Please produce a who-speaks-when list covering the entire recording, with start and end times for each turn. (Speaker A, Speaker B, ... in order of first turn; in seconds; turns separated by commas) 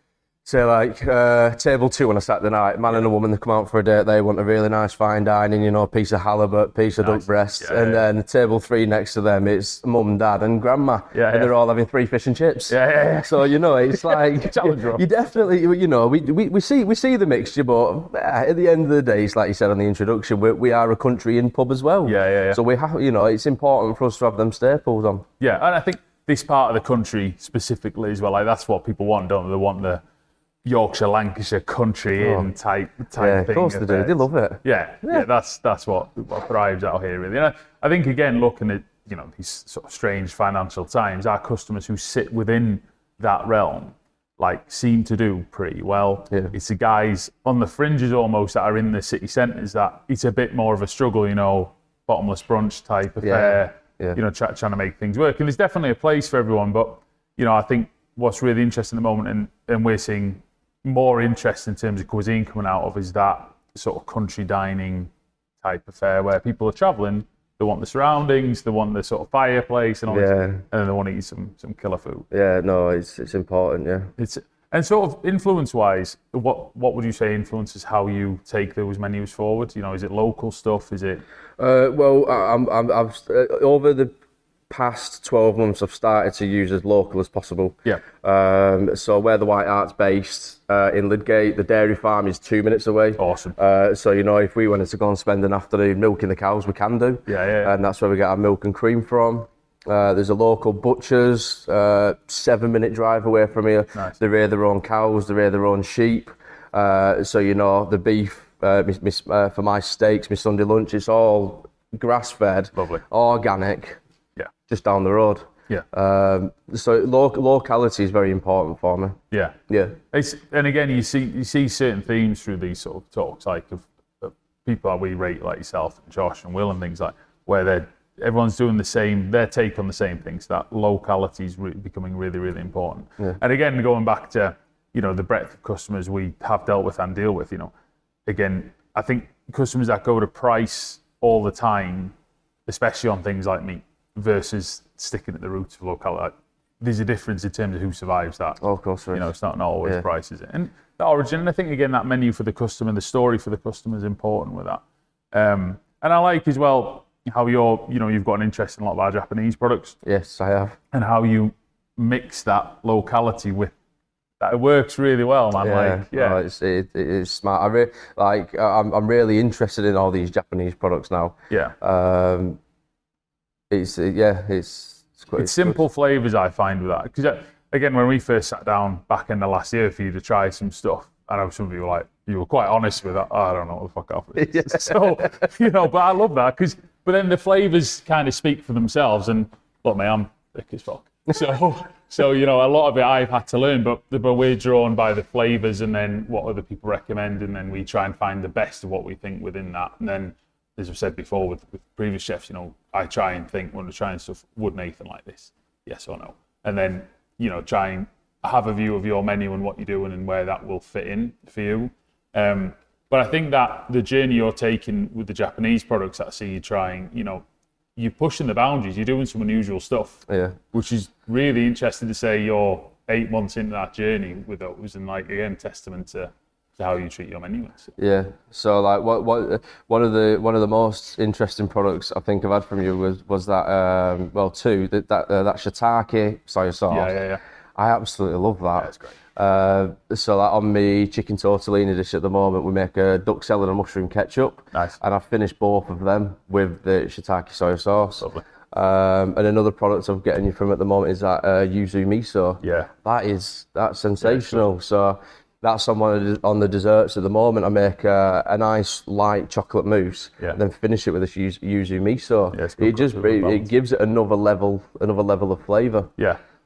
Speaker A: 0.5-25.3, Speaker B: 7.0-8.1, Speaker B: 11.1-11.5, Speaker B: 12.7-15.1, Speaker B: 22.1-22.6, Speaker B: 25.4-30.0, Speaker B: 30.6-65.1, Speaker A: 32.2-32.5, Speaker A: 33.2-35.3, Speaker A: 53.2-54.2, Speaker B: 65.6-72.3, Speaker A: 70.1-70.6, Speaker A: 72.3-74.1, Speaker B: 74.2-81.2, Speaker A: 81.6-84.1, Speaker A: 84.7-114.0, Speaker B: 93.2-93.6, Speaker B: 97.3-97.7, Speaker B: 112.8-113.0, Speaker A: 114.7-120.0, Speaker B: 119.3-119.6, Speaker B: 120.1-137.7, Speaker B: 138.3-142.1, Speaker B: 142.7-148.6, Speaker A: 148.6-149.3, Speaker B: 149.1-160.0, Speaker A: 160.0-160.8, Speaker B: 160.9-163.7, Speaker B: 164.4-166.4, Speaker A: 165.6-172.6, Speaker A: 173.7-175.8, Speaker B: 175.4-217.4, Speaker A: 184.4-185.0, Speaker B: 218.0-227.9, Speaker A: 220.3-220.6, Speaker A: 228.0-237.1, Speaker B: 236.9-237.4, Speaker A: 237.8-266.1, Speaker B: 238.8-239.2, Speaker B: 244.7-245.0, Speaker B: 248.2-248.4, Speaker B: 252.6-252.9, Speaker B: 254.2-254.6, Speaker B: 262.5-263.7